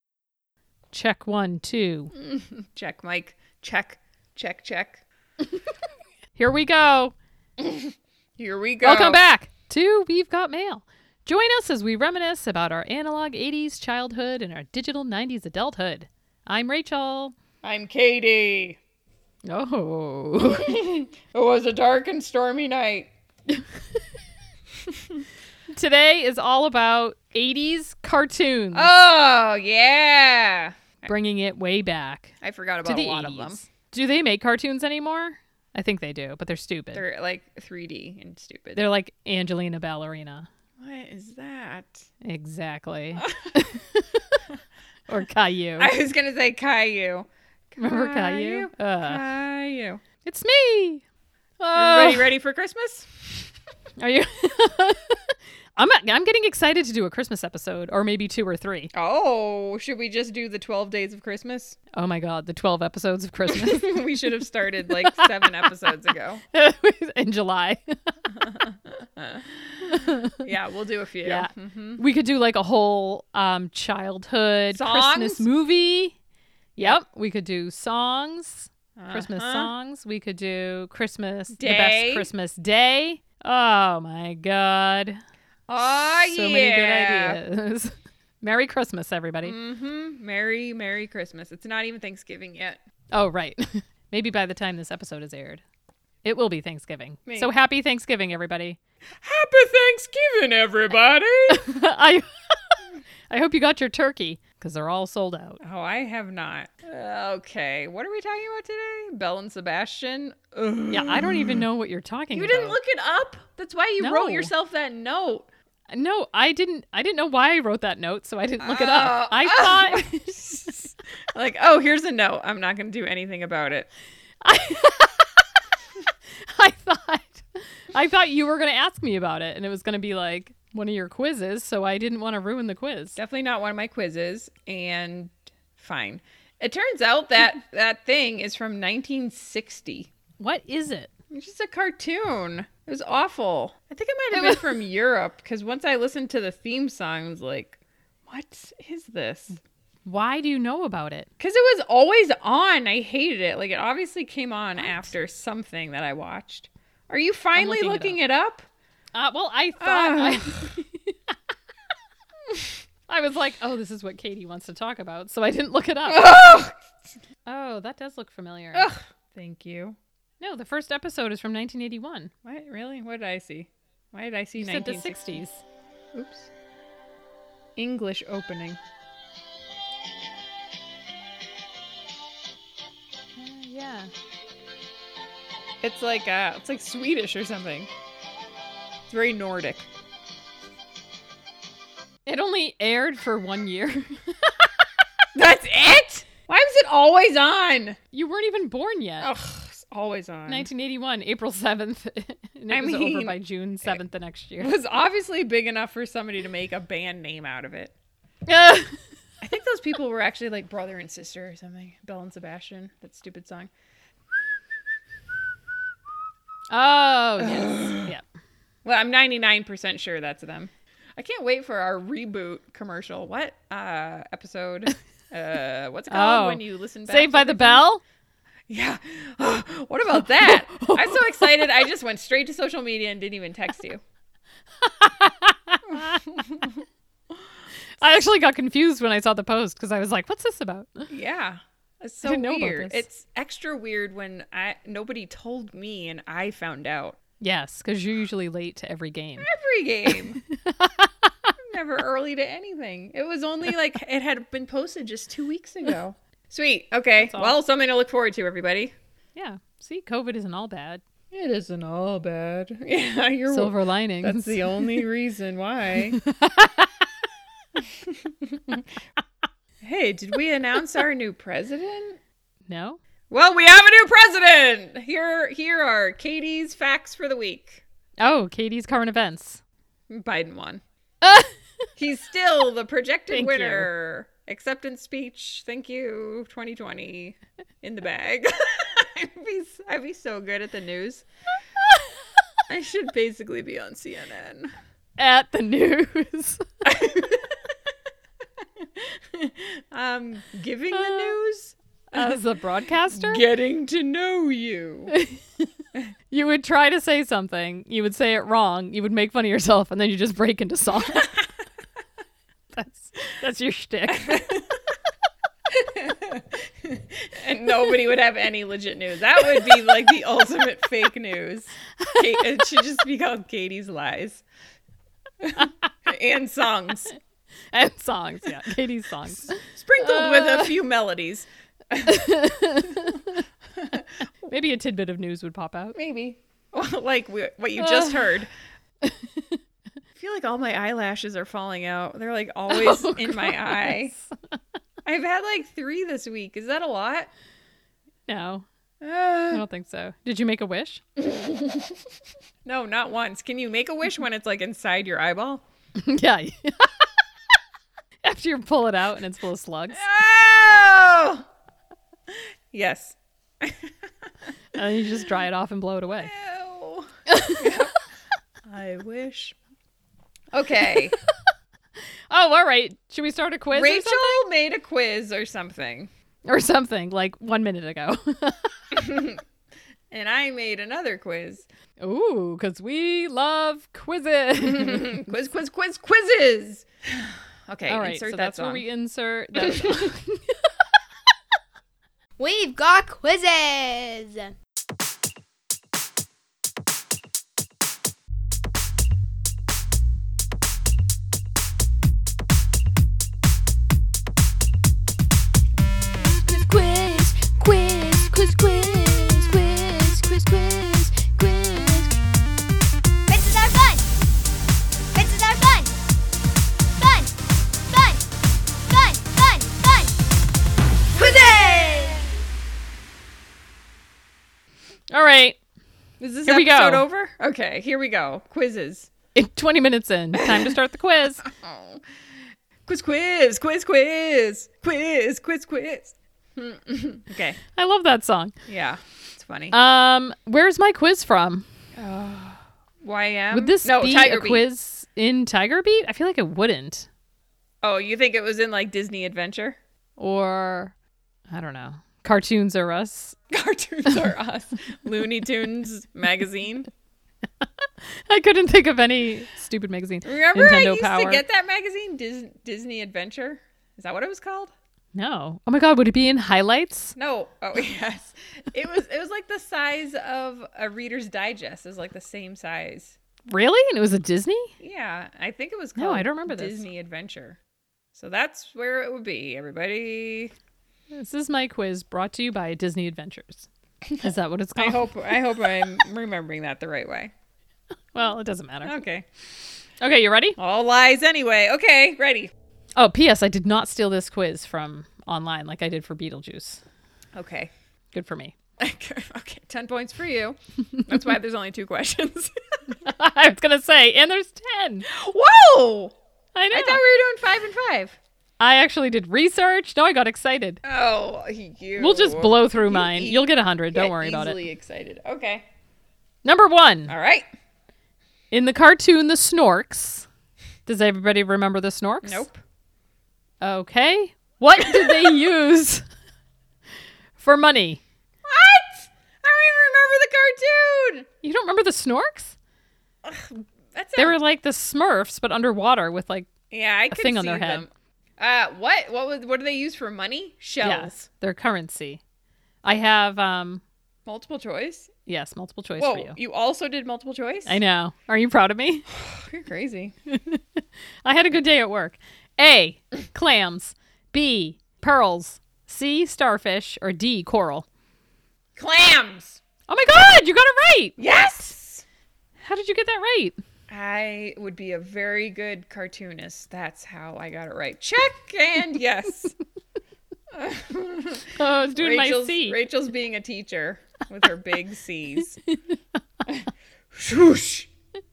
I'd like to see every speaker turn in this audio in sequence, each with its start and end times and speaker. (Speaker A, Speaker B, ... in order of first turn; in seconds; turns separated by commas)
Speaker A: 0.9-2.1, Speaker B: 2.1-5.0, Speaker A: 6.4-7.2, Speaker B: 7.6-9.2, Speaker A: 8.8-17.4, Speaker B: 17.6-18.8, Speaker A: 19.5-20.7, Speaker B: 20.4-23.1, Speaker A: 25.7-28.9, Speaker B: 28.7-31.1, Speaker A: 31.1-32.3, Speaker B: 32.4-33.6, Speaker A: 32.9-37.0, Speaker B: 36.9-38.8, Speaker A: 38.8-40.5, Speaker B: 40.8-42.0, Speaker A: 42.2-44.4, Speaker B: 43.2-43.6, Speaker A: 45.1-45.9, Speaker B: 45.8-50.0, Speaker A: 47.8-49.2, Speaker A: 50.2-51.0, Speaker A: 51.6-52.3, Speaker B: 51.7-53.2, Speaker A: 54.0-58.9, Speaker B: 58.9-61.8, Speaker A: 61.9-64.0, Speaker B: 63.5-66.4, Speaker A: 65.0-65.6, Speaker A: 66.5-67.8, Speaker B: 68.4-72.0, Speaker A: 69.9-70.4, Speaker A: 71.2-76.2, Speaker B: 74.7-75.5, Speaker A: 76.8-85.2, Speaker B: 79.0-79.7, Speaker B: 81.5-82.3, Speaker B: 85.7-87.4, Speaker A: 85.8-89.5, Speaker B: 89.4-92.8, Speaker A: 93.1-95.6, Speaker A: 96.2-98.8, Speaker B: 97.3-97.5, Speaker B: 99.2-101.7, Speaker A: 101.5-102.8, Speaker A: 103.3-105.6, Speaker B: 105.6-111.7, Speaker A: 110.9-112.8, Speaker B: 112.3-115.5, Speaker A: 114.0-114.5, Speaker A: 115.9-120.3, Speaker B: 118.6-123.9, Speaker A: 124.4-125.3, Speaker A: 126.4-133.2, Speaker B: 133.2-140.1, Speaker A: 140.4-141.1, Speaker B: 141.3-149.6, Speaker A: 150.1-151.3, Speaker B: 151.4-158.7, Speaker A: 154.8-155.1, Speaker A: 157.6-158.2, Speaker A: 159.2-161.3, Speaker B: 159.8-160.7, Speaker A: 163.1-166.3, Speaker B: 166.1-166.8, Speaker A: 167.5-168.9, Speaker B: 168.7-170.0, Speaker A: 170.4-172.3, Speaker B: 172.4-175.4, Speaker A: 174.6-175.6, Speaker B: 176.1-176.5, Speaker B: 177.8-178.8, Speaker A: 183.4-184.1, Speaker B: 185.8-187.9, Speaker B: 189.1-189.9, Speaker A: 192.3-194.5, Speaker B: 195.3-198.0, Speaker A: 198.1-199.3, Speaker B: 199.2-200.7, Speaker A: 200.5-204.7, Speaker B: 202.7-204.0, Speaker B: 204.6-207.9, Speaker A: 208.5-209.0, Speaker B: 209.4-213.7, Speaker A: 216.7-218.2, Speaker B: 217.4-218.1, Speaker B: 218.8-227.8, Speaker A: 226.1-228.0, Speaker B: 228.7-234.0, Speaker A: 230.4-231.5, Speaker A: 234.8-236.3, Speaker B: 235.9-236.8, Speaker A: 238.0-241.1, Speaker B: 241.1-247.2, Speaker A: 242.2-243.0, Speaker A: 247.4-249.5, Speaker B: 249.4-250.4, Speaker A: 250.5-251.5, Speaker B: 251.6-258.9, Speaker A: 257.2-257.6, Speaker A: 259.4-261.0, Speaker B: 261.3-266.2, Speaker A: 263.5-264.9, Speaker A: 266.2-266.9, Speaker B: 267.8-268.9, Speaker B: 269.8-272.2, Speaker A: 272.7-273.0, Speaker B: 273.3-277.8, Speaker A: 278.2-279.6, Speaker B: 280.1-280.8, Speaker A: 281.2-281.5, Speaker B: 282.0-291.2, Speaker A: 283.3-283.9, Speaker B: 292.7-294.8, Speaker A: 295.2-296.6, Speaker B: 296.8-297.7, Speaker B: 298.8-302.4, Speaker A: 300.9-301.4, Speaker A: 302.1-303.4, Speaker B: 303.1-305.1, Speaker A: 305.1-305.4, Speaker A: 306.3-311.3, Speaker A: 312.7-314.4, Speaker B: 314.1-314.8, Speaker B: 315.7-324.4, Speaker B: 325.4-327.1, Speaker A: 327.7-330.7, Speaker B: 329.5-332.3, Speaker A: 332.0-333.3, Speaker B: 333.8-334.1, Speaker A: 334.5-336.0, Speaker B: 335.9-338.5, Speaker A: 337.8-338.3, Speaker A: 339.0-339.6, Speaker B: 340.1-344.1, Speaker A: 342.7-344.5, Speaker B: 345.1-347.3, Speaker A: 348.3-348.7, Speaker B: 349.0-349.6, Speaker A: 349.5-351.0, Speaker B: 351.2-352.0, Speaker B: 352.6-355.6, Speaker A: 356.0-356.9, Speaker A: 358.2-360.0, Speaker B: 359.9-361.5, Speaker B: 362.3-364.5, Speaker A: 364.7-366.3, Speaker B: 366.2-368.0, Speaker A: 367.3-367.6, Speaker B: 368.6-369.6, Speaker B: 370.5-371.2, Speaker A: 372.3-374.4, Speaker B: 373.7-376.1, Speaker A: 376.5-379.0, Speaker B: 378.9-379.4, Speaker B: 380.1-381.7, Speaker A: 382.0-385.3, Speaker B: 384.6-388.9, Speaker A: 387.9-390.6, Speaker B: 389.6-390.1, Speaker C: 392.4-394.5, Speaker C: 406.2-412.1, Speaker C: 413.3-414.1, Speaker C: 415.1-416.1, Speaker C: 417.0-417.3, Speaker C: 417.9-418.3, Speaker C: 418.9-420.2, Speaker C: 421.1-422.3, Speaker B: 421.1-422.3, Speaker A: 425.1-425.6, Speaker B: 426.2-429.1, Speaker A: 426.4-427.1, Speaker A: 429.3-431.4, Speaker B: 430.4-430.8, Speaker B: 431.4-432.0, Speaker B: 432.9-437.6, Speaker A: 437.8-438.5, Speaker B: 438.7-439.8, Speaker A: 439.7-441.7, Speaker B: 442.0-444.7, Speaker A: 443.5-447.1, Speaker B: 447.8-449.8, Speaker A: 450.2-450.9, Speaker A: 451.5-453.4, Speaker B: 453.5-456.9, Speaker A: 457.6-461.4, Speaker B: 460.2-464.7, Speaker A: 465.1-467.1, Speaker B: 467.2-473.2, Speaker A: 473.5-474.7, Speaker B: 474.8-477.6, Speaker A: 476.0-476.9, Speaker B: 478.1-480.5, Speaker A: 481.1-483.7, Speaker A: 484.2-485.1, Speaker B: 484.8-487.3, Speaker A: 488.1-489.0, Speaker B: 488.8-489.3, Speaker A: 490.0-490.6, Speaker B: 490.6-492.5, Speaker A: 493.0-496.8, Speaker B: 497.4-497.7, Speaker A: 498.1-498.5, Speaker B: 498.8-502.9, Speaker A: 503.0-505.1, Speaker B: 505.1-506.1, Speaker A: 506.6-507.0, Speaker B: 506.7-508.2, Speaker A: 508.6-510.8, Speaker B: 510.8-515.6, Speaker A: 512.0-514.6, Speaker A: 516.4-517.1, Speaker B: 517.1-517.5, Speaker A: 518.5-520.3, Speaker A: 520.9-522.5, Speaker B: 522.2-522.6, Speaker A: 523.6-526.0, Speaker B: 524.8-525.4, Speaker A: 527.4-528.0, Speaker B: 528.5-531.3, Speaker A: 531.4-532.6, Speaker B: 533.2-534.4, Speaker A: 534.2-536.5, Speaker B: 536.7-541.1, Speaker A: 537.1-537.9, Speaker A: 540.8-542.2, Speaker A: 542.8-543.8, Speaker B: 544.3-545.1, Speaker A: 545.3-546.4, Speaker B: 546.0-547.8, Speaker A: 547.7-549.1, Speaker B: 549.1-550.1, Speaker A: 550.3-557.9, Speaker B: 558.8-559.6, Speaker A: 559.9-561.2, Speaker B: 561.2-562.0, Speaker A: 562.6-563.6, Speaker B: 563.9-569.6, Speaker B: 570.5-575.6, Speaker A: 571.6-572.8, Speaker B: 576.5-577.9